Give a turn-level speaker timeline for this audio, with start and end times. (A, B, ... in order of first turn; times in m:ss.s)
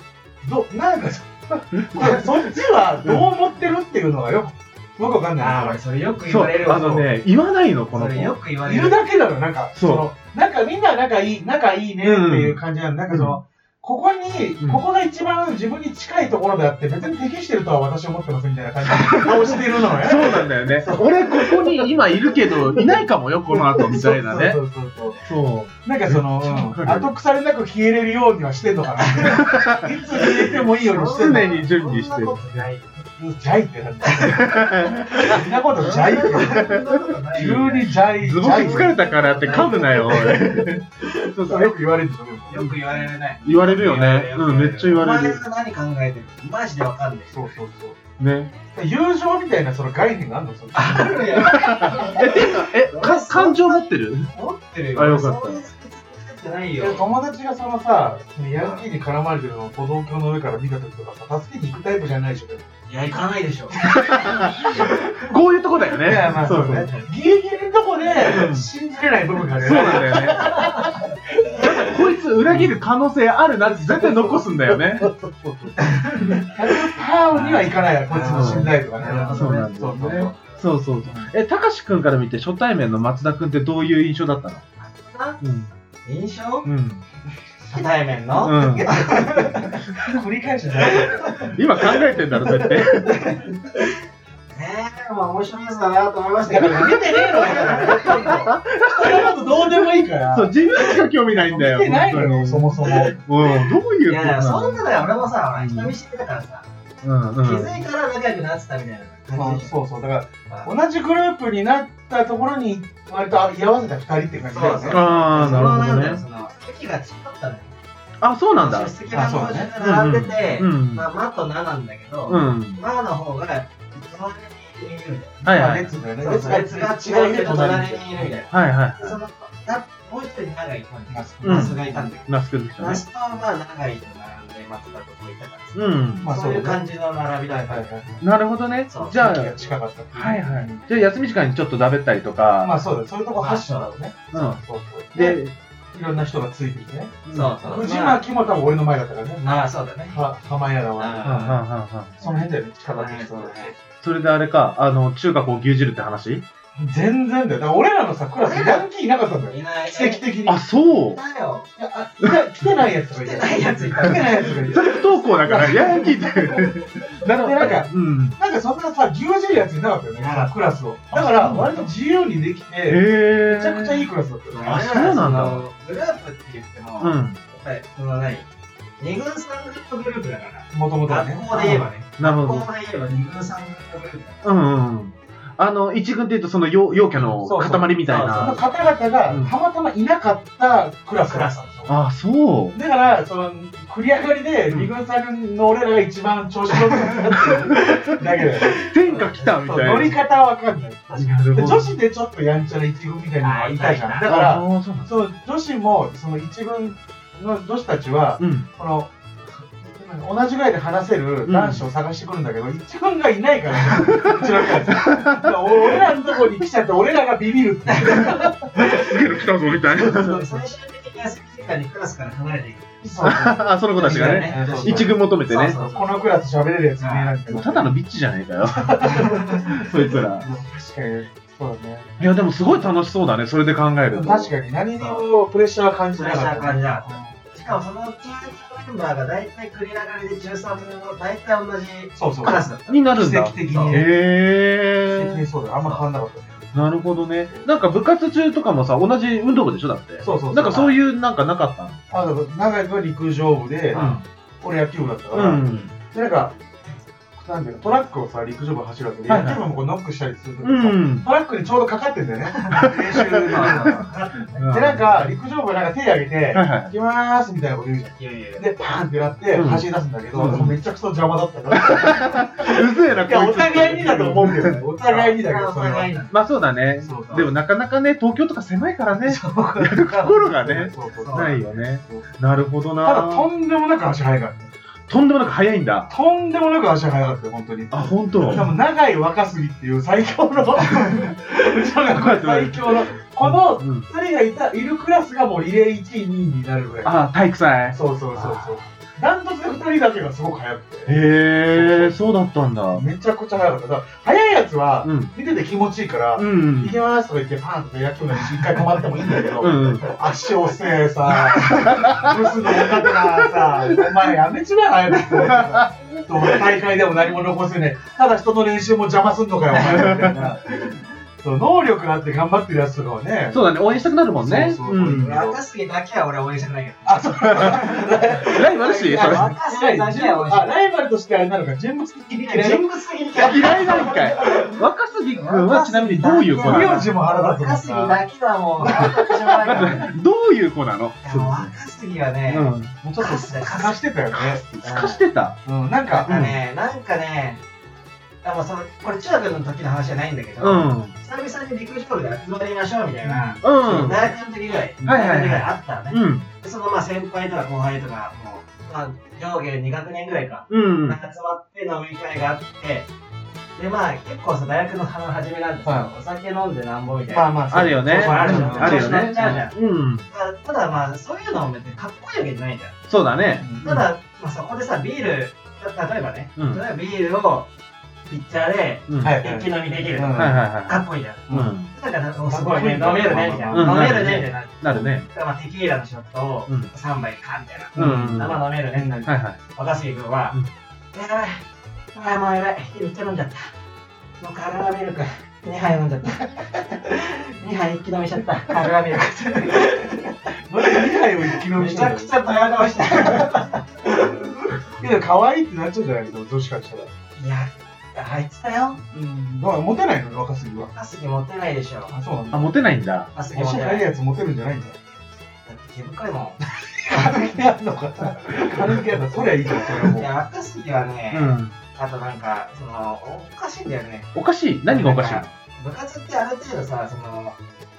0:00.4-0:05.8 A
0:01.8-0:02.2 B
0:05.4-0:07.1 C
0:06.2-0:08.4 B
0:07.9-0:09.0 C
0:08.6-0:21.9 A
0:09.8-0:10.1 B
0:12.0-0:12.6 B
0:13.1-0:13.4 B
0:19.0-0:19.4 B
0:20.0-0:24.6 B
0:22.5-0:23.0 A
0:23.8-0:25.2 A
0:25.2-0:27.1 B
0:25.8-0:31.6 A
0:29.1-0:29.5 C
0:29.3-0:29.8 B
0:30.2-0:33.0 C
0:31.1-0:32.7 B
0:33.2-0:36.7 A
0:34.0-0:41.3 C
0:34.4-0:35.2 B
0:36.6-0:36.8 B
0:37.3-0:40.5 A
0:38.2-0:40.8 B
0:41.3-0:41.7 B
0:41.4-0:42.7 A
0:42.5-0:47.6 C
0:43.4-0:45.4 B
0:47.3-0:48.0 A
0:48.2-0:48.5 B
0:48.7-0:52.0 A
0:50.7-0:57.0 C
0:51.4-0:54.3 B
0:55.0-0:55.7 B
0:56.8-1:02.7 A
0:58.6-0:58.8 C
1:02.9-1:05.3 C
1:03.9-1:06.9 B
1:03.9-1:04.9 A
1:06.0-1:11.9 A
1:06.5-1:07.1 C
1:08.2-1:08.7 B
1:09.6-1:10.8 B
1:10.1-1:11.0 C
1:11.5-1:15.1 B
1:12.4-1:12.8 A
1:13.7-1:20.3 A
1:15.8-1:20.6 C
1:18.2-1:18.7 B
1:19.2-1:24.6 B
1:21.0-1:21.3 A
1:24.8-1:25.4 C
1:25.4-1:25.7 B
1:26.1-1:26.7 C
1:26.6-1:27.0 B
1:27.7-1:29.8 C
1:28.4-1:28.9 B
1:28.9-1:31.5 A
1:30.9-1:31.6 C
1:31.5-1:33.2 B
1:32.5-1:32.8 A
1:32.9-1:33.9 C
1:34.5-1:38.5 C
1:36.4-1:43.2 A
1:37.9-1:39.2 B
1:40.3-1:44.8 B
1:42.8-1:46.7 C
1:45.6-1:45.9 B
1:47.0-1:47.8 B
1:47.4-1:49.7 C
1:49.3-1:55.8 A
1:54.5-1:57.7 C
1:54.9-1:56.2 B
1:58.2-1:58.9 B
1:58.5-2:12.3 C
1:59.1-1:59.7 A
1:59.8-2:01.0 B
2:02.3-2:02.8 B
2:05.4-2:05.9 B
2:05.5-2:08.4 A
2:08.5-2:09.2 B
2:11.1-2:12.1 A
2:11.4-2:13.0 B
2:12.8-2:18.2 C
2:15.8-2:16.3 B
2:16.2-2:16.8 A
2:17.4-2:18.2 A
2:18.2-2:19.6 B
2:18.9-2:19.2 C
2:19.1-2:20.8 A
2:20.1-2:22.8 B
2:22.6-2:25.4 A
2:23.3-2:23.9 C
2:24.3-2:24.6 B
2:25.1-2:25.5 B
2:25.9-2:31.6 A
2:27.3-2:27.6 B
2:27.3-2:28.2 C
2:29.4-2:30.2 C
2:31.0-2:31.6 C
2:31.2-2:32.3 B
2:32.2-2:33.8 A
2:32.9-2:33.7 C
2:34.0-2:36.4 B
2:36.8-2:40.6 A
2:38.4-2:38.8 C
2:39.5-2:40.3 C
2:40.4-2:41.2 B
2:41.1-2:41.7 C
2:41.8-2:54.8 A
2:43.2-2:45.0 C
2:44.0-2:48.4 B
2:50.2-2:50.6 C
2:51.1-2:51.9 C
2:52.9-2:54.1 B
2:54.5-2:58.5 C
2:54.6-2:55.6 B
2:57.0-2:57.4 B
2:59.0-3:04.4 C
3:00.7-3:01.8 A
3:01.5-3:02.7 B
3:04.4-3:08.6 B
3:07.2-3:11.5 A
3:08.0-3:08.9 C
3:11.3-3:11.9 C
3:11.9-3:12.8 B
3:12.7-3:18.8 A
3:17.4-3:18.1 B
3:18.8-3:20.2 B
3:19.0-3:19.8 C
3:19.6-3:38.7 A
3:21.2-3:21.9 B
3:23.4-3:24.3 C
3:24.3-3:25.1 B
3:28.4-3:28.7 B
3:31.5-3:31.8 B
3:34.0-3:35.6 B
3:37.9-3:39.1 C
3:38.7-3:40.4 B
3:39.9-3:43.4 C
3:40.0-3:40.5 A
3:43.0-3:47.9 A
3:43.2-3:45.8 B
3:44.0-3:46.3 C
3:47.0-3:47.3 C
3:47.5-3:50.5 B
3:48.7-3:52.2 A
3:49.0-3:50.1 C
3:52.2-3:54.5 B
3:54.1-3:57.4 A
3:55.0-3:55.2 C
3:56.1-4:02.9 C
4:02.2-4:04.1 A
4:02.9-4:05.4 B
4:03.6-4:03.9 C
4:05.1-4:06.9 A
4:06.7-4:12.0 B
4:10.2-4:10.9 A
4:10.6-4:11.0 C
4:12.1-4:14.1 A
4:13.9-4:14.2 C
4:14.6-4:16.6 A
4:15.3-4:15.8 B
4:15.6-4:15.9 C
4:17.4-4:24.1 A
4:19.3-4:19.6 B
4:20.6-4:21.3 B
4:22.5-4:24.7 C
4:22.8-4:23.9 B
4:24.6-4:25.2 B
4:24.6-4:36.1 A
4:26.5-4:26.9 B
4:28.1-4:28.7 C
4:29.5-4:30.8 B
4:31.8-4:34.8 B
4:34.4-4:36.4 C
4:36.3-4:43.5 B
4:37.0-4:37.5 A
4:37.0-4:37.5 C
4:39.3-4:39.9 C
4:39.8-4:42.3 A
4:41.1-4:41.6 C
4:43.0-4:44.7 A
4:45.1-4:46.1 B
4:46.1-4:57.2 A
4:47.9-4:48.7 B
4:52.1-4:54.1 B
4:57.0-4:58.0 B
4:57.9-5:01.2 A
4:58.4-4:58.7 C
5:01.1-5:03.0 B
5:01.7-5:02.3 A
5:02.9-5:20.6 A
5:05.0-5:05.3 B
5:06.4-5:07.0 B
5:09.6-5:10.1 B
5:11.5-5:12.3 B
5:15.4-5:15.9 B
5:19.9-5:20.4 B
5:21.4-5:23.6 A
5:23.5-5:25.3 B
5:24.4-5:25.6 A
5:25.1-5:30.8 C
5:27.0-5:34.6 A
5:27.5-5:27.8 B
5:28.4-5:29.5 B
5:32.4-5:40.1 C
5:33.4-5:37.1 B
5:36.5-5:38.2 A
5:38.8-5:40.1 A
5:38.8-5:41.7 B
5:41.2-5:45.2 C
5:42.5-5:42.9 B
5:43.0-5:46.3 A
5:44.8-5:45.6 B
5:46.1-5:47.6 C
5:46.3-5:46.6 B
5:48.4-6:03.1 C
5:50.6-5:51.2 B
5:53.2-5:54.2 A
5:53.6-5:54.3 B
5:55.0-5:56.4 B
6:00.7-6:01.2 B
6:03.8-6:13.0 C
6:05.8-6:06.1 A
6:07.3-6:09.7 A
6:07.7-6:10.3 B
6:13.1-6:14.0 B
6:13.6-6:14.0 A
6:13.8-6:17.7 C
6:16.6-6:16.8 B
6:18.3-6:30.6 C
6:19.1-6:19.4 B
6:19.2-6:20.6 A
6:20.3-6:21.9 B
6:21.5-6:21.8 A
6:22.5-6:24.4 A
6:23.7-6:25.3 B
6:27.9-6:28.6 B
6:27.9-6:29.3 A
6:29.2-6:29.6 B
6:31.1-6:33.7 C
6:34.4-6:43.9 C
6:40.7-6:42.3 A
6:44.9-6:47.1 A
6:47.4-6:49.0 C
6:49.1-6:50.9 A
6:50.9-6:52.2 C
6:52.1-6:52.7 A
6:52.5-6:53.3 B
6:53.3-6:54.1 C
6:53.5-6:55.0 A
6:55.7-6:56.6 C
6:56.9-7:00.3 A
7:00.0-7:04.3 C
7:01.3-7:01.7 B
7:04.3-7:05.5 B
7:04.9-7:07.6 C